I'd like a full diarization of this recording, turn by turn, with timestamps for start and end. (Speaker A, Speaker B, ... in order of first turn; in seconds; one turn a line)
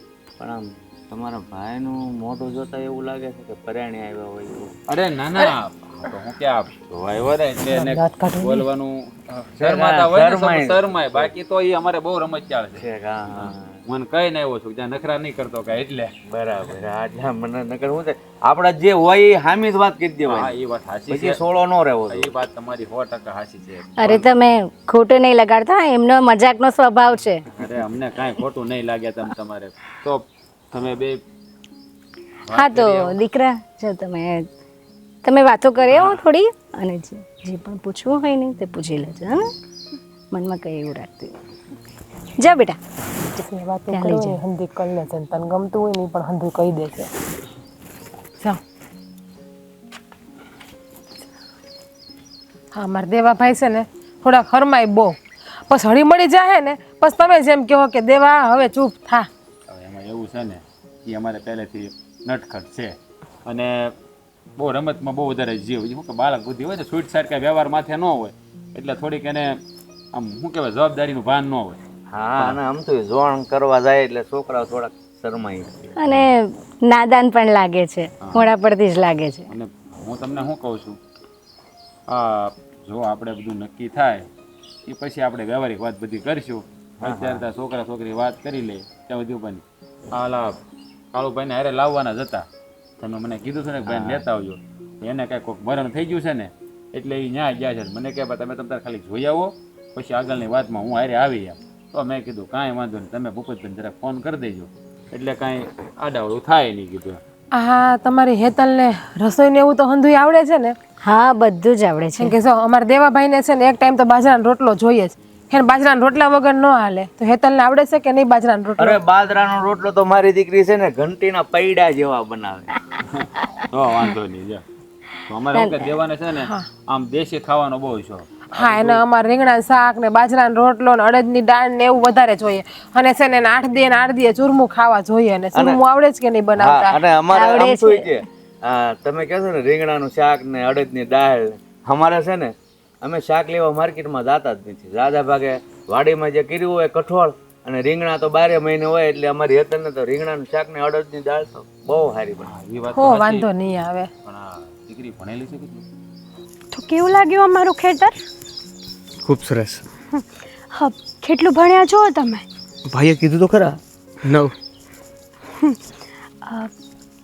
Speaker A: 0.4-4.8
Speaker B: 4.9-12.8
Speaker A: 9.6-11.3
Speaker A: 12.8-13.8
Speaker B: 13.4-16.1
Speaker A: 16.3-20.5
Speaker B: 20.3-21.4
Speaker A: 21.1-22.4
Speaker B: 22.1-24.3
Speaker C: 24.0-27.4
Speaker B: 27.5-31.2
Speaker B: 32.5-33.1
Speaker C: 32.5-34.4
Speaker C: 35.2-39.5
Speaker B: 35.9-36.2
Speaker C: 40.3-41.3
Speaker C: 42.4-42.8
Speaker D: 43.4-47.1
Speaker C: 43.9-44.4
Speaker D: 52.7-55.1
Speaker D: 55.7-59.3
Speaker B: 59.7-63.9
Speaker B: 64.6-69.6
Speaker B: 70.1-71.8
Speaker A: 72.1-76.2
Speaker C: 76.0-79.5
Speaker B: 78.2-78.5
Speaker B: 79.5-81.0
Speaker B: 82.1-84.3
Speaker B: 84.8-90.6
Speaker A: 87.0-87.4
Speaker B: 91.1-92.5
Speaker B: 93.0-107.2
Speaker A: 93.8-94.2
Speaker D: 107.5-110.7
Speaker C: 111.0-112.3
Speaker D: 112.2-119.0
Speaker A: 118.8-122.8
Speaker B: 123.0-124.6
Speaker B: 125.3-129.0
Speaker C: 125.5-125.8
Speaker D: 128.6-136.9
Speaker A: 135.5-135.8
Speaker A: 136.6-152.5
Speaker C: 137.3-138.1
Speaker B: 152.5-153.5
Speaker D: 152.9-154.1
Speaker B: 154.2-155.8
Speaker E: 156.7-158.1
Speaker F: 159.2-159.8
Speaker E: 160.7-162.4
Speaker F: 162.9-164.5